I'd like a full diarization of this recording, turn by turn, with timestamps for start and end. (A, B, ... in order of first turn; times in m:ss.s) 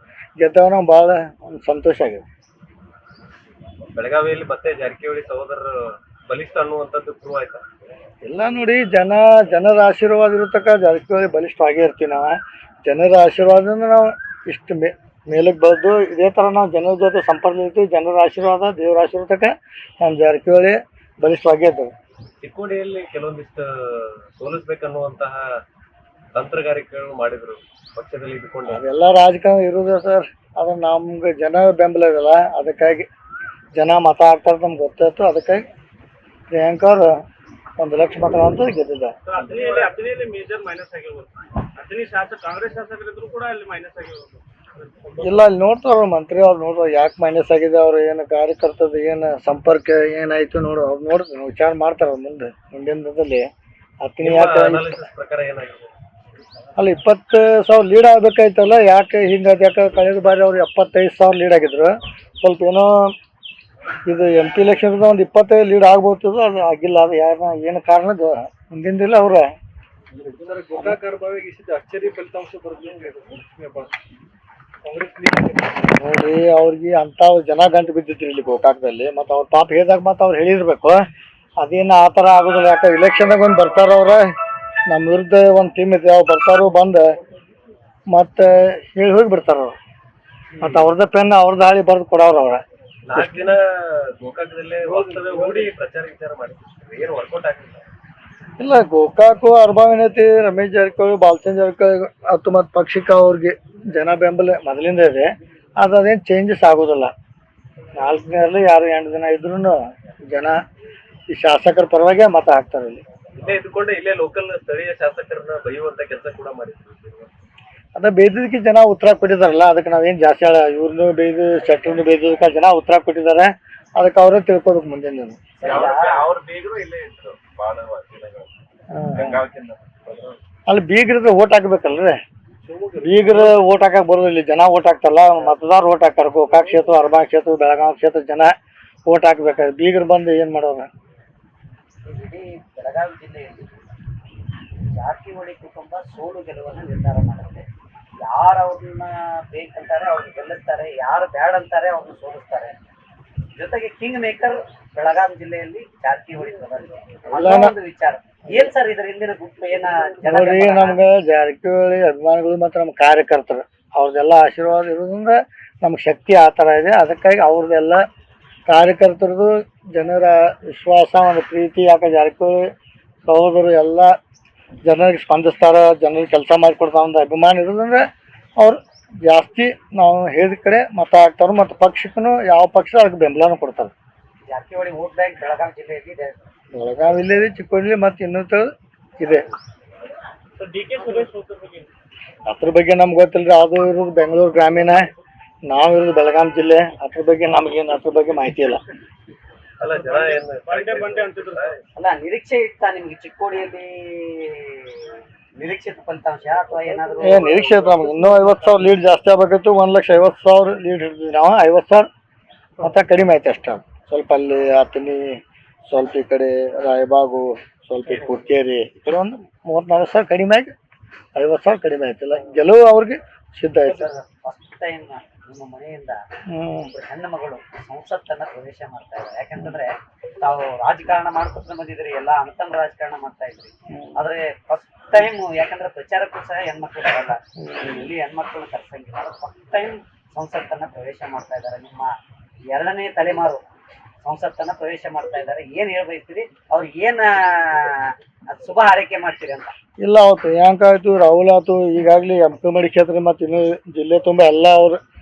0:00.4-0:02.2 A
0:03.9-0:07.6 B
0:08.2-0:21.9 A
0:22.4-0:25.4 B
0:26.4-0:28.8 B
0:28.7-0:33.1 A
0:33.7-0:35.6 A
0:36.5-0:37.1 A
0:37.8-0:39.2 A
0:39.3-0:45.5 C
0:39.4-0:39.9 B
0:45.2-0:53.5 A
0:54.0-0:55.0 A
0:54.2-0:55.9 B
0:56.8-1:03.1 A
1:04.1-1:09.5 A
1:10.1-1:13.9 C
1:14.8-1:15.9 C
1:16.0-1:21.0 A
1:21.6-1:24.3 A
1:24.9-1:27.0 A
1:28.1-1:29.8 A
1:30.6-1:30.9 B
1:30.6-1:32.6 A
1:33.1-1:37.8 B
1:33.1-1:33.5 A
1:34.8-1:35.7 C
1:38.6-1:47.1 A
1:48.0-1:50.6 A
1:51.3-1:53.0 A
1:53.4-1:57.3 B
1:58.0-2:05.4 A
2:05.6-2:06.3 D
2:05.6-2:08.5 B
2:08.9-2:09.4 A
2:09.1-2:10.4 B
2:10.7-2:12.2 A
2:12.6-2:13.6 C
2:13.0-2:18.5 A
2:19.1-2:20.9 A
2:22.0-2:23.7 D
2:24.9-2:27.6 D
2:28.2-2:32.7 D
2:33.6-2:41.0 D
2:37.3-2:37.8 A
2:40.3-2:48.0 A
2:48.7-2:52.6 A
2:53.3-2:54.2 A
2:54.8-2:58.1 A
2:58.6-3:03.9 A
3:04.5-3:06.4 D
3:06.7-3:09.4 A
3:10.6-3:11.9 C
3:12.5-3:15.0 A
3:15.7-3:18.8 A
3:19.8-3:21.7 B
3:19.9-3:21.7 C
3:22.0-3:25.0 D
3:25.6-3:27.5 D
3:27.2-3:32.1 A
3:32.8-3:40.7 A
3:41.4-3:44.1 A
3:43.9-3:46.2 D
3:46.5-3:46.9 A
3:46.9-4:02.1 D
3:53.9-3:54.2 A
3:57.6-3:58.1 A
4:02.7-4:03.6 D
4:04.2-4:09.7 D
4:10.0-4:15.0 A